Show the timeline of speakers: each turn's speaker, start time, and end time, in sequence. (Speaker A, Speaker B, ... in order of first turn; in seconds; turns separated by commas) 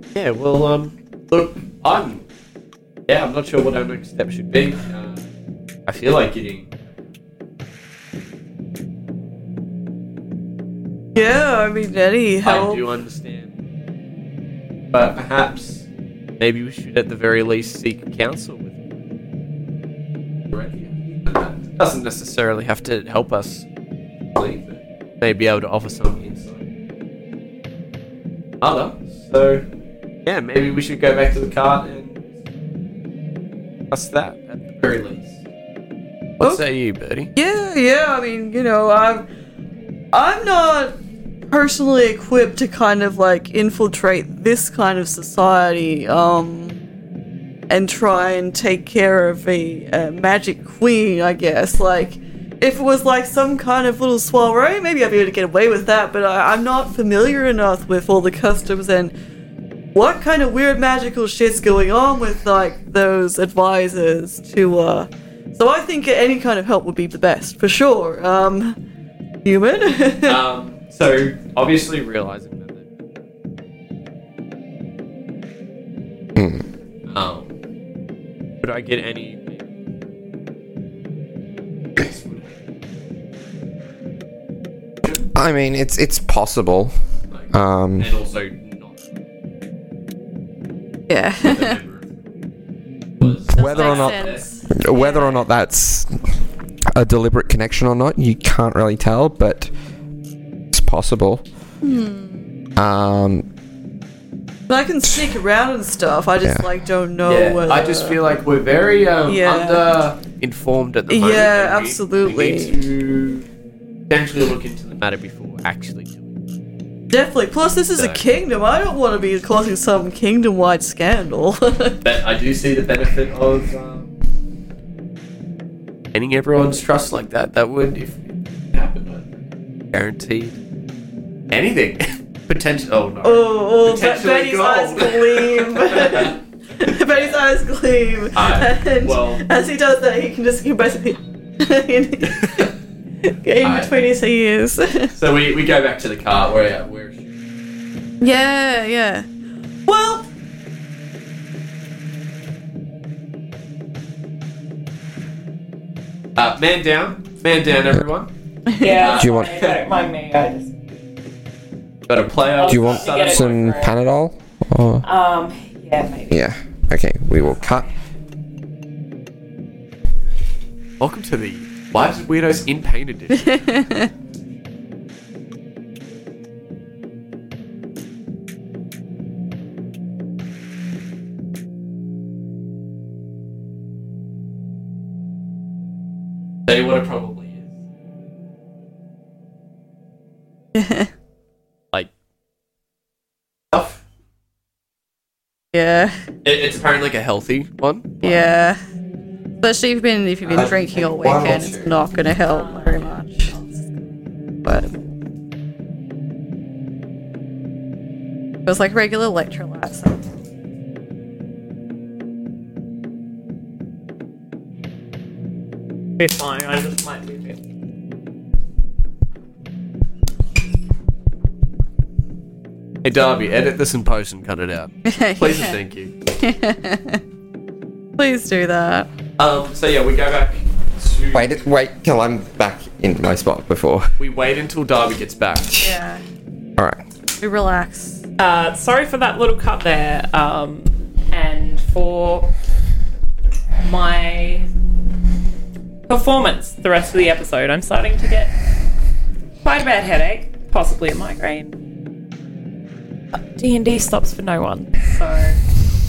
Speaker A: 0.1-2.2, Speaker A: 3.1-5.2, Speaker A: 5.9-6.7, Speaker B: 11.2-12.8, Speaker A: 12.4-13.5, Speaker A: 14.9-15.8, Speaker A: 16.4-18.8, Speaker A: 20.5-23.6, Speaker A: 24.4-26.6, Speaker A: 28.6-29.6, Speaker A: 30.3-32.2, Speaker A: 33.9-35.4, Speaker A: 36.4-37.3, Speaker B: 37.4-39.3, Speaker B: 40.1-41.0, Speaker B: 41.5-46.8, Speaker B: 47.7-59.1, Speaker B: 59.9-68.8, Speaker B: 69.5-70.4, Speaker A: 70.2-72.8, Speaker C: 76.4-76.6, Speaker A: 77.1-77.5, Speaker A: 78.6-79.6, Speaker A: 82.0-82.5, Speaker C: 85.3-86.9, Speaker A: 87.3-89.0, Speaker C: 87.5-88.1, Speaker B: 91.1-91.8, Speaker A: 91.4-92.1, Speaker A: 93.2-94.5, Speaker C: 93.5-96.2, Speaker B: 93.5-95.3, Speaker C: 96.9-99.7, Speaker C: 100.7-101.5, Speaker B: 101.8-102.5, Speaker C: 102.8-103.5, Speaker B: 104.7-108.2, Speaker C: 106.4-106.7, Speaker A: 107.3-113.5, Speaker B: 109.3-109.9, Speaker B: 111.1-112.8, Speaker A: 114.1-116.4, Speaker B: 117.1-122.0, Speaker A: 118.0-118.2, Speaker A: 122.0-124.1, Speaker A: 126.1-129.3, Speaker A: 129.9-130.6, Speaker A: 131.5-136.4, Speaker B: 133.2-142.7, Speaker A: 136.9-137.4, Speaker A: 138.3-139.4, Speaker A: 142.2-142.7, Speaker B: 143.2-145.1, Speaker A: 143.6-144.0, Speaker A: 145.1-147.2, Speaker B: 148.2-149.3, Speaker B: 149.9-150.3, Speaker A: 156.4-158.3, Speaker B: 158.8-159.0, Speaker D: 158.8-160.7, Speaker A: 158.8-159.8, Speaker C: 159.1-159.6, Speaker A: 162.1-163.9, Speaker D: 162.6-163.9, Speaker C: 162.7-165.1, Speaker D: 165.0-166.4, Speaker C: 166.3-167.9, Speaker A: 171.0-174.1, Speaker A: 186.7-187.7, Speaker B: 190.7-191.1, Speaker A: 193.7-194.0, Speaker B: 195.7-196.2, Speaker A: 196.4-198.4, Speaker B: 198.2-198.8, Speaker B: 199.6-203.5, Speaker A: 200.5-200.8, Speaker C: 200.6-201.9, Speaker D: 202.4-204.0, Speaker B: 204.7-204.9, Speaker B: 208.7-210.2, Speaker D: 216.2-217.6, Speaker A: 223.0-226.1, Speaker B: 225.1-225.8, Speaker B: 226.4-227.2, Speaker B: 228.2-229.1, Speaker A: 229.4-231.6, Speaker C: 231.3-234.1, Speaker A: 234.2-235.9, Speaker B: 235.8-236.2, Speaker C: 236.8-237.0, Speaker B: 237.4-238.2, Speaker D: 238.4-242.5, Speaker D: 243.8-244.7, Speaker D: 246.1-248.5, Speaker D: 249.6-251.8, Speaker D: 253.6-255.6